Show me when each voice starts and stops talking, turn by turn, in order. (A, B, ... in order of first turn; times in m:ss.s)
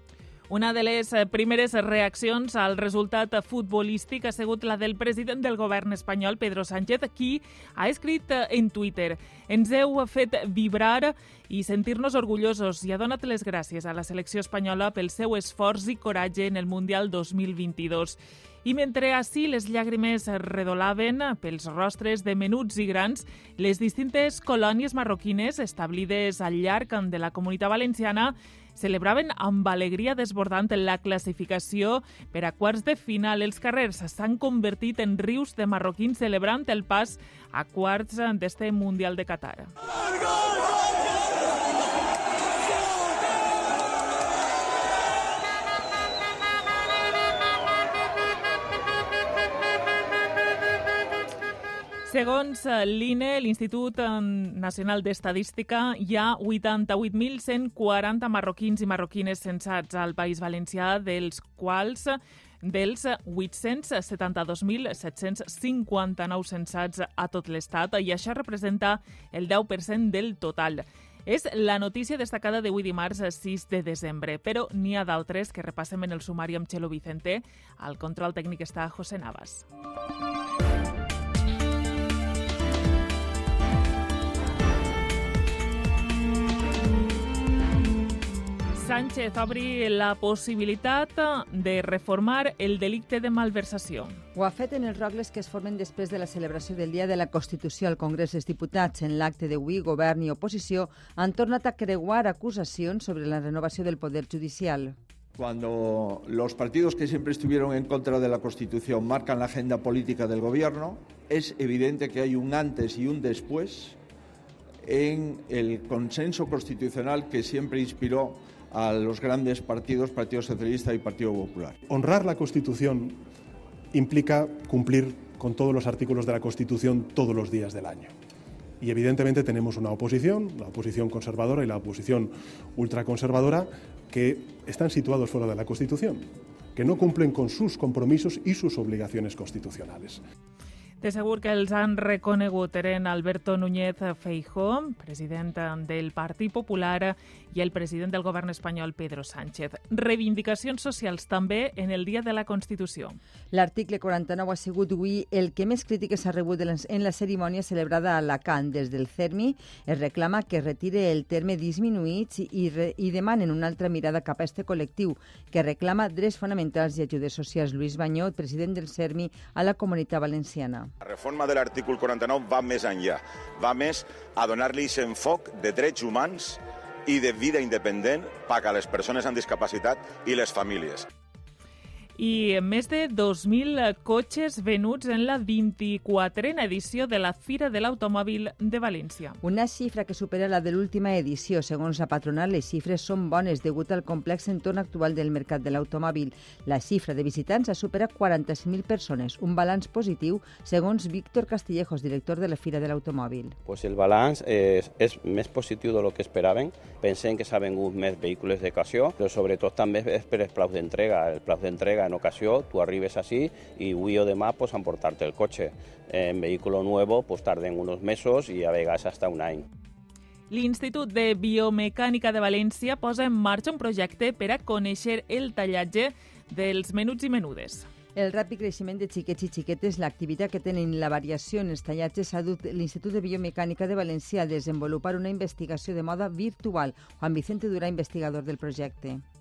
0:00.5-0:39.7 A
0:52.0-1:19.6 A
1:28.7-1:34.2 A
1:34.4-1:45.0 B
1:45.4-1:54.0 C
1:54.8-2:01.8 C
2:01.9-2:03.2 D
2:03.9-2:08.1 D
2:08.8-2:20.2 D
2:21.0-2:33.2 A
2:33.5-2:50.9 B
2:51.0-3:01.1 E
3:02.2-3:09.4 A
3:09.4-3:23.6 B
3:23.7-3:39.6 F
3:40.5-3:47.9 A
3:48.2-3:59.2 B